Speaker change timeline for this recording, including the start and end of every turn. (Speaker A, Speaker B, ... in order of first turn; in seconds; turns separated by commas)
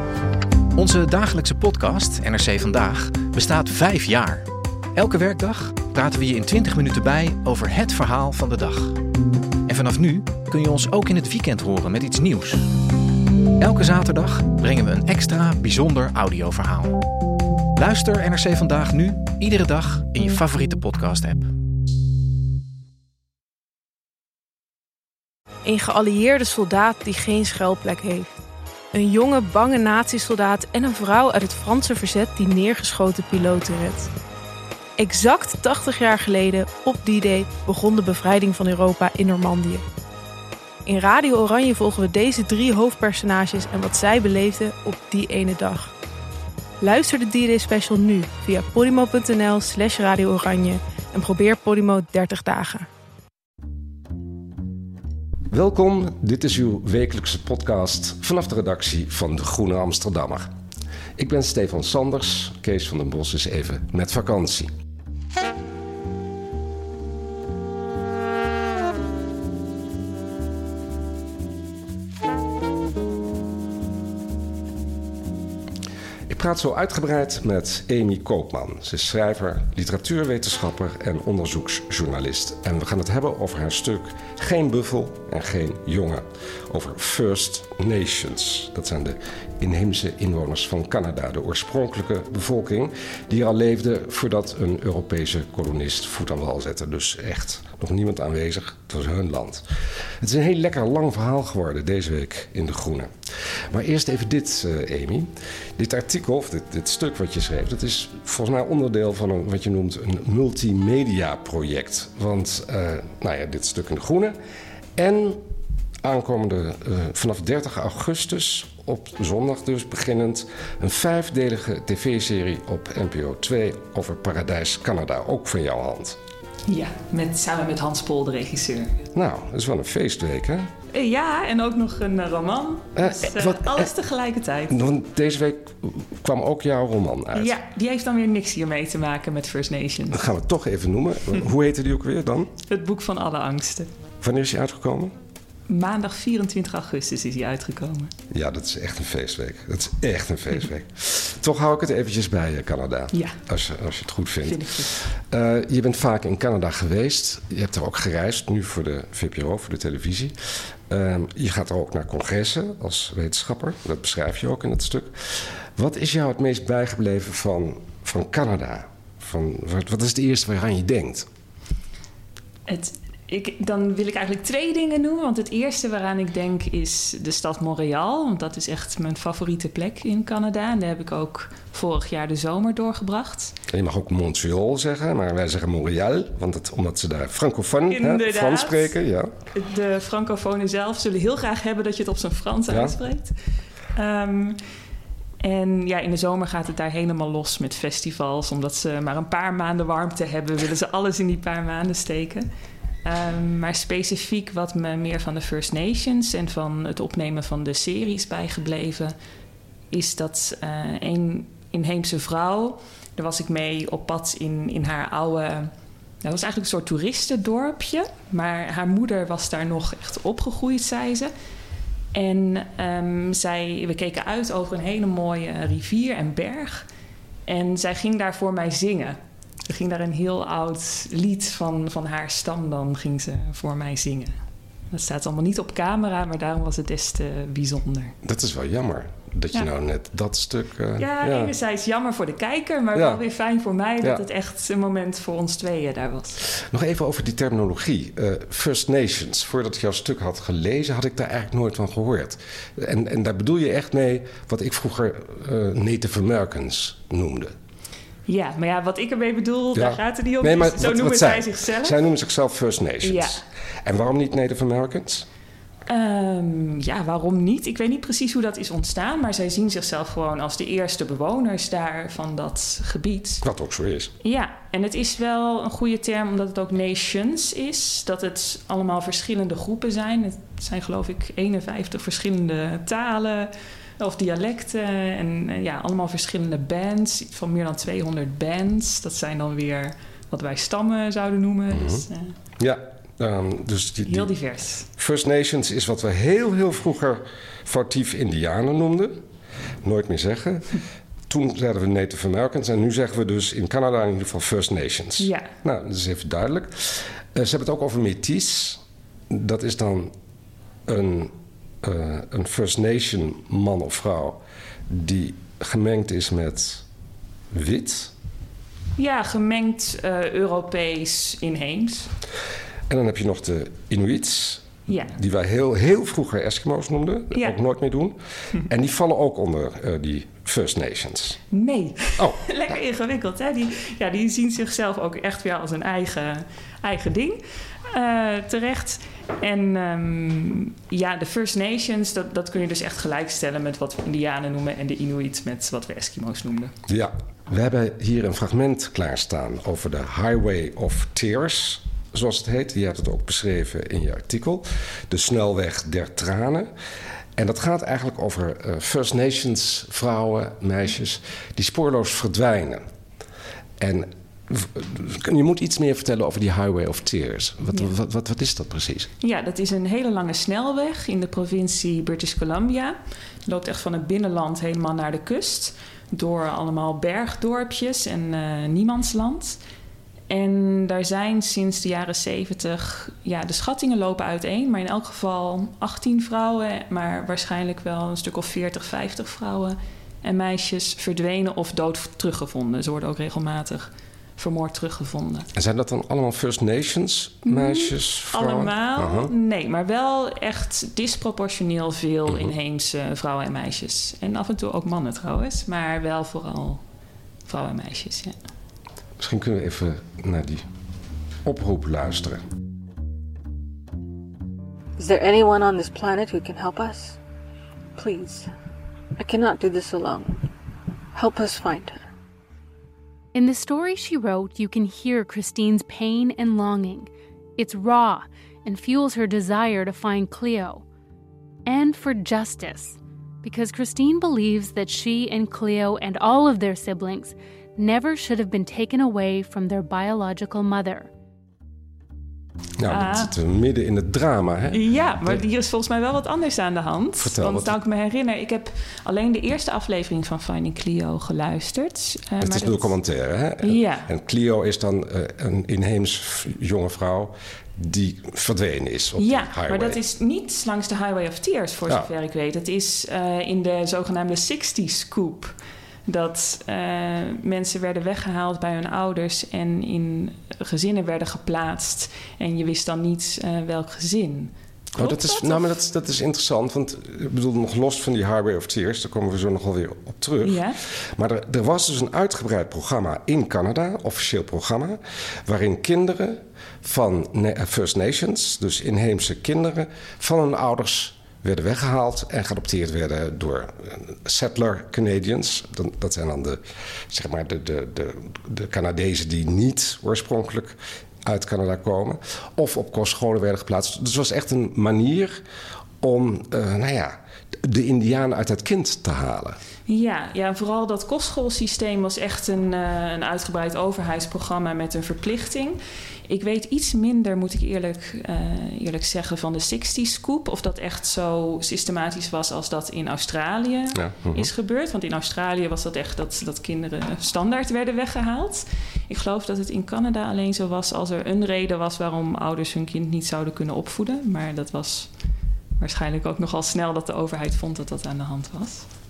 Speaker A: 0.7-9.0, Speaker A: 9.7-12.6, Speaker A: 13.6-17.0, Speaker A: 17.8-21.5, Speaker B: 25.6-28.4, Speaker B: 28.9-34.1, Speaker B: 35.0-39.8, Speaker B: 40.9-45.9, Speaker B: 46.8-52.9, Speaker C: 55.5-60.5, Speaker C: 61.2-64.7, Speaker C: 76.3-99.6, Speaker C: 100.2-103.1, Speaker C: 103.7-114.3, Speaker C: 115.0-115.4, Speaker C: 116.0-126.2, Speaker D: 126.7-129.0, Speaker C: 129.1-130.7, Speaker D: 130.9-134.7, Speaker C: 132.9-133.9, Speaker C: 134.7-137.6, Speaker D: 137.3-140.2, Speaker C: 140.1-142.5, Speaker D: 142.7-143.9, Speaker C: 144.2-145.1, Speaker D: 145.7-148.1, Speaker C: 148.3-160.3, Speaker D: 153.1-153.4, Speaker D: 154.4-155.1, Speaker C: 160.9-171.3, Speaker D: 172.7-183.5, Speaker C: 183.7-189.3, Speaker D: 187.9-188.9, Speaker D: 189.5-193.3, Speaker C: 192.7-193.0, Speaker D: 193.9-194.6, Speaker D: 195.4-202.5, Speaker D: 203.0-209.1, Speaker D: 209.9-215.7, Speaker D: 216.2-221.3, Speaker D: 222.1-226.8, Speaker D: 227.5-234.3, Speaker D: 234.9-238.1, Speaker C: 238.2-241.5, Speaker D: 241.0-246.4, Speaker C: 242.9-243.2, Speaker C: 246.5-257.5, Speaker D: 258.3-262.0, Speaker C: 259.7-265.3, Speaker D: 263.0-263.4, Speaker D: 265.9-273.4, Speaker C: 273.4-274.1, Speaker D: 274.2-292.3, Speaker C: 291.7-292.1, Speaker C: 292.6-294.3, Speaker D: 294.1-294.9, Speaker C: 295.0-299.2, Speaker C: 299.8-310.1, Speaker D: 305.2-305.5, Speaker C: 310.9-316.8, Speaker C: 317.5-318.1, Speaker D: 319.0-322.1, Speaker C: 322.9-331.4, Speaker D: 324.9-325.1, Speaker D: 331.5-346.7, Speaker C: 346.9-356.7, Speaker C: 357.4-362.8, Speaker C: 363.8-369.1, Speaker D: 369.2-379.6, Speaker D: 380.3-395.5, Speaker C: 395.5-399.3, Speaker D: 397.4-406.8, Speaker D: 407.5-408.4, Speaker C: 409.2-410.6, Speaker C: 411.4-412.4, Speaker E: 415.0-417.2, Speaker E: 417.9-418.5, Speaker E: 419.2-420.5, Speaker E: 421.1-422.0, Speaker F: 423.3-430.8, Speaker F: 431.6-441.1, Speaker C: 442.8-445.4, Speaker D: 442.9-443.3, Speaker D: 444.7-452.9, Speaker C: 447.2-447.7, Speaker C: 452.4-460.0, Speaker D: 453.6-454.1, Speaker D: 459.2-465.5, Speaker D: 466.1-475.7, Speaker C: 474.9-505.4, Speaker D: 480.4-480.8, Speaker C: 506.0-509.6, Speaker D: 509.9-535.1, Speaker C: 523.9-524.5, Speaker D: 535.8-538.9